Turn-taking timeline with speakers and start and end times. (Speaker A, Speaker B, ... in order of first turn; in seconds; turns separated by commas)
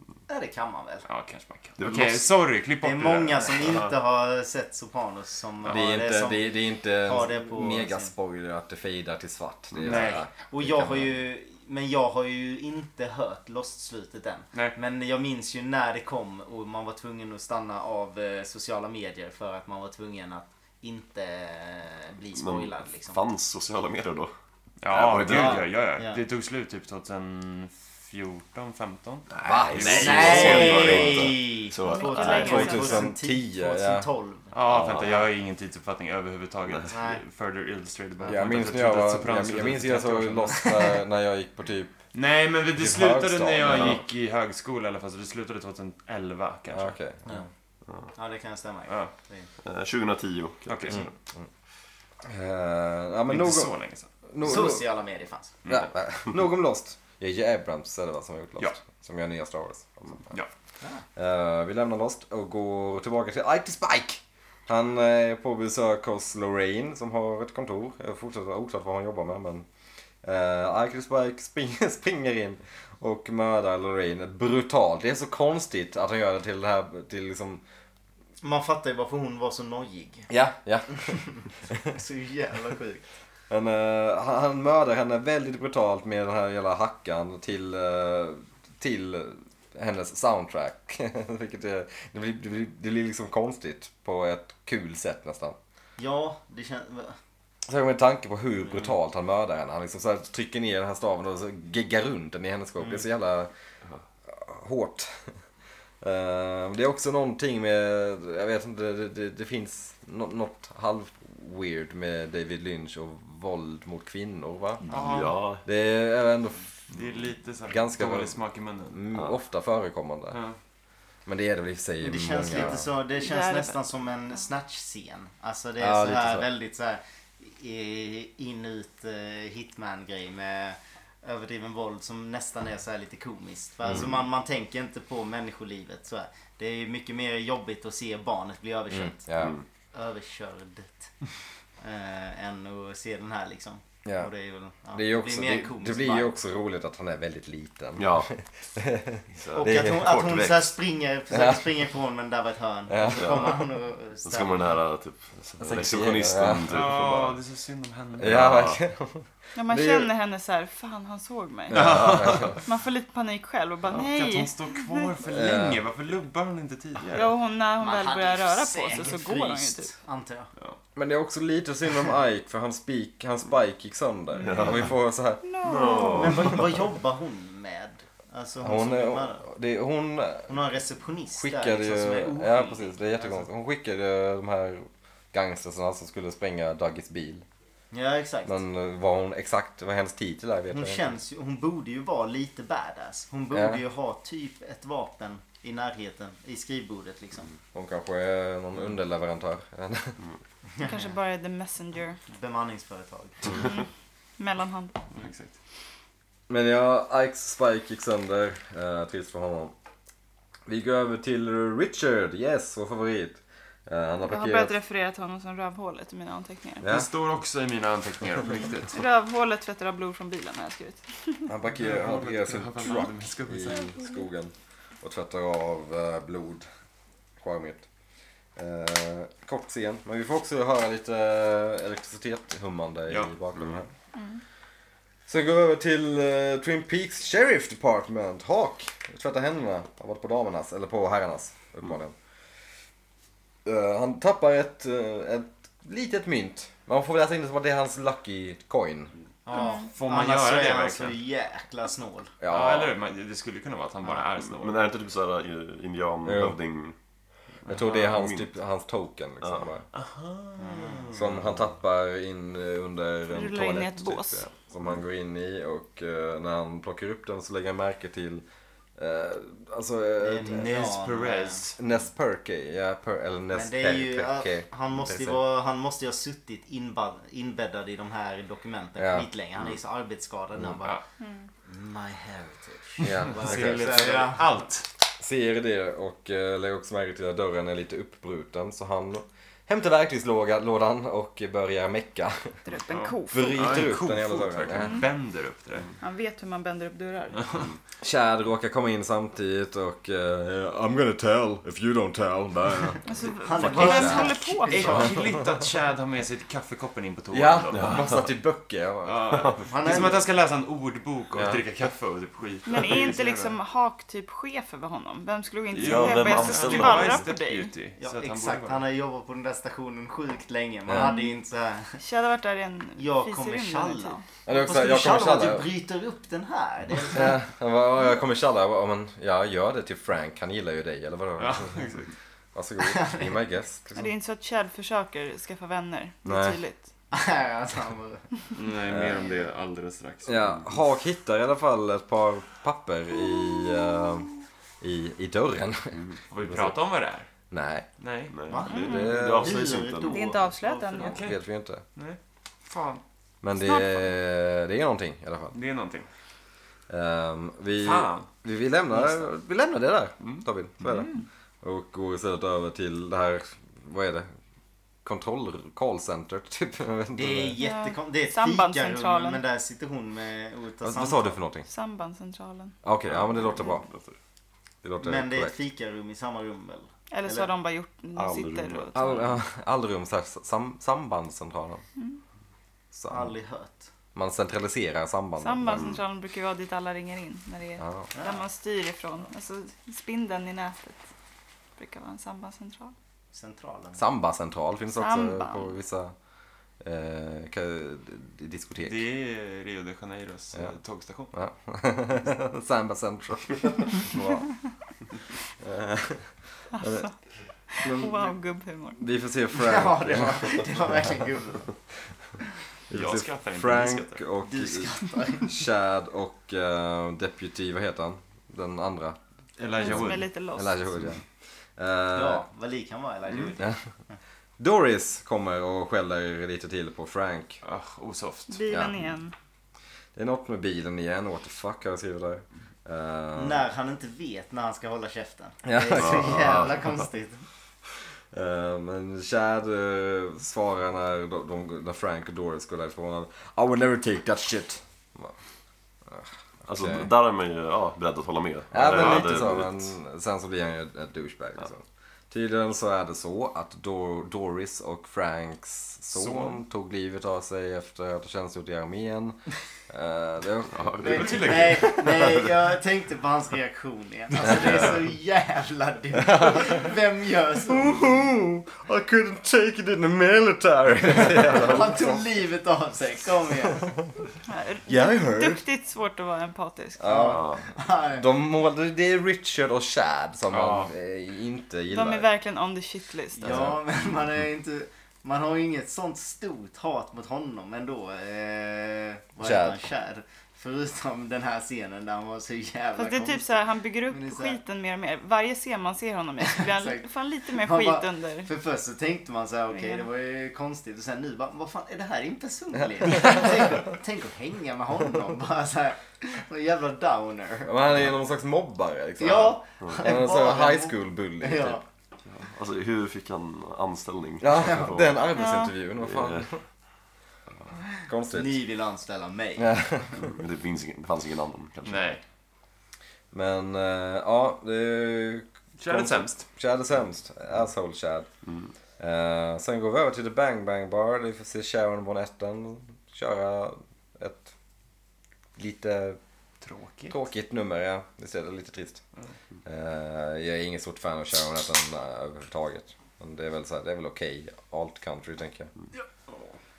Speaker A: 0.3-1.1, Speaker B: 1.1-3.9, Speaker C: 1.8-2.2, Speaker A: 2.8-8.1, Speaker D: 5.7-11.1, Speaker C: 9.7-10.0, Speaker B: 9.8-10.3, Speaker A: 10.5-23.2, Speaker C: 22.3-24.3, Speaker B: 24.8-31.1, Speaker C: 24.9-25.6, Speaker A: 25.2-26.2, Speaker C: 29.3-32.7, Speaker D: 29.4-31.2, Speaker A: 29.9-35.1, Speaker E: 31.8-33.1, Speaker D: 32.2-34.1, Speaker B: 34.5-40.8, Speaker C: 34.6-35.2, Speaker A: 36.9-37.2, Speaker D: 38.2-42.0, Speaker B: 42.1-47.0, Speaker D: 42.7-44.0, Speaker C: 43.7-44.0, Speaker D: 46.7-47.3, Speaker A: 48.1-49.5, Speaker C: 49.6-51.1, Speaker B: 50.6-51.0, Speaker D: 50.9-51.5, Speaker D: 52.2-53.7, Speaker B: 53.3-54.1, Speaker D: 54.3-54.8, Speaker A: 54.4-55.5, Speaker D: 55.6-60.4, Speaker D: 61.1-69.7, Speaker D: 70.2-77.6, Speaker A: 78.4-80.3, Speaker D: 80.3-81.2, Speaker A: 80.9-81.4, Speaker A: 81.9-83.0, Speaker D: 83.5-95.5, Speaker A: 96.0-97.2, Speaker D: 97.7-103.5, Speaker D: 104.3-105.3, Speaker D: 106.0-114.9, Speaker B: 114.9-115.4, Speaker C: 114.9-115.6, Speaker D: 115.6-117.0, Speaker B: 116.9-119.0, Speaker D: 117.7-118.3, Speaker D: 118.9-120.4, Speaker B: 120.3-120.6, Speaker D: 121.2-122.9, Speaker A: 122.0-139.3, Speaker E: 123.2-123.8, Speaker D: 125.8-126.5, Speaker D: 138.9-139.6, Speaker C: 139.4-139.6, Speaker A: 139.9-141.1, Speaker A: 141.8-146.3, Speaker D: 144.0-144.3, Speaker D: 144.9-150.1, Speaker C: 147.9-148.3, Speaker C: 149.3-150.7, Speaker A: 149.5-154.6, Speaker D: 151.3-151.7, Speaker D: 152.9-153.6, Speaker C: 153.2-153.6, Speaker C: 154.2-157.4, Speaker D: 155.6-156.8, Speaker B: 156.7-158.5, Speaker D: 158.2-160.1, Speaker C: 158.2-158.8, Speaker E: 159.5-165.1, Speaker D: 161.7-162.6, Speaker B: 161.7-162.6, Speaker B: 163.9-167.3, Speaker D: 165.3-165.8, Speaker E: 167.1-169.9, Speaker A: 167.8-170.5, Speaker D: 170.9-175.4, Speaker C: 174.4-174.9, Speaker E: 175.4-176.3, Speaker C: 175.6-176.7, Speaker A: 176.2-179.4, Speaker D: 178.6-180.5, Speaker A: 180.5-183.0, Speaker D: 181.4-187.4, Speaker A: 187.9-188.6, Speaker D: 188.4-191.0, Speaker A: 190.7-197.5, Speaker D: 193.5-193.8, Speaker D: 197.7-200.2, Speaker A: 200.7-201.1, Speaker E: 200.8-202.2, Speaker A: 202.3-203.4, Speaker E: 203.5-203.8, Speaker E: 204.4-205.0, Speaker B: 205.1-205.5, Speaker D: 206.5-209.7, Speaker D: 210.7-214.7, Speaker E: 214.2-216.9, Speaker D: 216.8-217.1, Speaker B: 216.8-219.0, Speaker E: 218.9-221.5, Speaker D: 221.5-226.6, Speaker B: 221.8-223.9, Speaker E: 223.7-224.1, Speaker D: 227.4-227.8, Speaker D: 228.6-233.9, Speaker D: 235.3-242.1, Speaker D: 243.6-249.1, Speaker A: 249.4-252.3, Speaker E: 249.5-249.9, Speaker B: 249.8-251.2, Speaker D: 252.4-252.9, Speaker B: 252.5-254.8, Speaker C: 254.4-256.9, Speaker D: 256.2-256.6, Speaker D: 257.6-259.9, Speaker B: 257.7-258.1, Speaker C: 258.0-258.5, Speaker C: 259.4-259.7, Speaker B: 259.9-261.1, Speaker A: 260.6-261.1, Speaker D: 261.1-268.4, Speaker E: 263.3-264.4, Speaker D: 269.0-270.7, Speaker A: 270.2-271.6, Speaker B: 270.5-271.8, Speaker D: 271.8-275.4, Speaker A: 273.5-281.0, Speaker D: 279.0-279.3, Speaker E: 281.2-281.5, Speaker A: 281.6-284.4, Speaker D: 283.0-284.0, Speaker B: 283.1-284.9, Speaker D: 285.2-292.6, Speaker E: 292.6-293.9, Speaker B: 292.9-295.9, Speaker D: 293.3-295.0, Speaker E: 294.8-295.1, Speaker E: 296.0-297.6, Speaker B: 297.4-297.7, Speaker D: 298.0-303.0, Speaker E: 303.1-305.1, Speaker A: 303.4-305.2, Speaker D: 303.6-304.4, Speaker B: 304.7-308.1, Speaker D: 307.3-310.1, Speaker C: 307.7-308.2, Speaker B: 309.0-313.6, Speaker A: 309.7-310.2, Speaker D: 311.3-311.6, Speaker E: 312.6-317.7, Speaker C: 315.7-317.3, Speaker B: 315.7-318.8, Speaker A: 318.0-322.0, Speaker E: 320.9-321.4, Speaker E: 322.0-324.2, Speaker A: 323.0-327.4, Speaker D: 324.4-325.7, Speaker D: 327.1-331.9, Speaker B: 331.4-332.1, Speaker D: 332.5-334.1, Speaker A: 332.8-333.3, Speaker E: 333.9-336.8, Speaker D: 336.2-336.6, Speaker A: 337.1-338.3, Speaker B: 338.5-340.8, Speaker D: 338.9-339.2, Speaker D: 340.2-344.3, Speaker D: 344.8-346.0, Speaker B: 346.3-347.3, Speaker D: 346.5-346.7, Speaker D: 347.5-347.9, Speaker B: 348.0-348.3, Speaker C: 348.3-350.4, Speaker A: 348.5-351.2, Speaker E: 348.7-349.2, Speaker D: 348.7-349.6, Speaker E: 350.1-351.2, Speaker B: 351.0-351.4, Speaker D: 351.0-351.8, Speaker B: 351.9-353.0, Speaker D: 353.4-355.6, Speaker E: 353.6-354.1, Speaker B: 355.5-356.1, Speaker D: 356.9-364.3, Speaker B: 357.8-358.3, Speaker B: 358.9-359.2, Speaker B: 360.2-361.2, Speaker D: 365.0-367.6, Speaker A: 367.1-371.4, Speaker E: 367.6-369.4, Speaker D: 370.8-371.6, Speaker E: 371.7-372.8, Speaker D: 372.8-373.8, Speaker C: 373.1-374.1, Speaker D: 374.8-375.5, Speaker A: 375.0-377.5, Speaker E: 377.1-379.3, Speaker C: 378.1-378.9, Speaker D: 378.9-381.8, Speaker D: 382.9-383.3, Speaker A: 383.1-383.9, Speaker D: 384.1-385.9, Speaker E: 385.4-391.0, Speaker C: 385.7-386.0, Speaker D: 387.8-388.1, Speaker A: 388.1-388.4, Speaker E: 391.8-392.9, Speaker A: 393.3-394.0, Speaker D: 393.9-396.1, Speaker E: 395.0-395.7, Speaker D: 396.8-399.0, Speaker B: 398.8-401.3, Speaker D: 401.3-404.5, Speaker D: 405.6-407.0, Speaker E: 406.7-407.1, Speaker E: 407.7-409.0, Speaker D: 407.8-408.3, Speaker D: 409.0-410.6, Speaker A: 409.5-411.7, Speaker D: 412.9-419.2, Speaker B: 412.9-414.2, Speaker A: 414.4-415.5, Speaker B: 419.6-420.2, Speaker D: 419.8-421.2, Speaker E: 419.8-420.9, Speaker D: 421.8-422.4, Speaker A: 422.1-423.7, Speaker D: 424.6-427.6, Speaker B: 427.6-428.6, Speaker E: 428.5-429.3, Speaker D: 428.7-429.1, Speaker D: 430.1-433.6, Speaker A: 433.4-437.4, Speaker D: 435.6-436.7, Speaker C: 435.9-436.7, Speaker D: 438.3-445.3, Speaker D: 446.1-447.1, Speaker C: 446.7-449.9, Speaker D: 448.7-462.0, Speaker B: 448.9-449.4, Speaker B: 456.1-456.6, Speaker C: 460.7-462.5, Speaker A: 461.0-468.0, Speaker B: 461.1-462.1, Speaker D: 464.4-464.9, Speaker D: 466.2-466.8, Speaker D: 467.6-472.2, Speaker A: 471.5-473.9, Speaker E: 474.5-477.4, Speaker D: 474.9-475.6, Speaker D: 477.0-477.6, Speaker A: 477.0-478.2, Speaker D: 478.1-482.3, Speaker B: 480.5-480.9, Speaker E: 481.9-483.7, Speaker A: 483.4-493.5, Speaker D: 483.5-483.8, Speaker D: 489.4-489.8, Speaker E: 492.9-498.5, Speaker A: 494.1-494.6, Speaker A: 496.4-507.8, Speaker E: 499.7-500.0, Speaker D: 503.0-503.3, Speaker D: 507.6-511.8, Speaker A: 509.2-511.8, Speaker C: 512.2-515.2, Speaker D: 514.4-516.6, Speaker E: 515.3-515.7, Speaker C: 516.0-516.6, Speaker D: 518.0-518.6, Speaker A: 518.3-519.7, Speaker D: 519.6-520.2, Speaker C: 520.2-522.1, Speaker B: 521.8-522.2, Speaker D: 523.3-528.3, Speaker B: 525.8-526.4, Speaker D: 529.0-534.5, Speaker D: 535.6-536.2, Speaker B: 536.6-537.1, Speaker D: 537.1-539.0, Speaker D: 539.6-545.7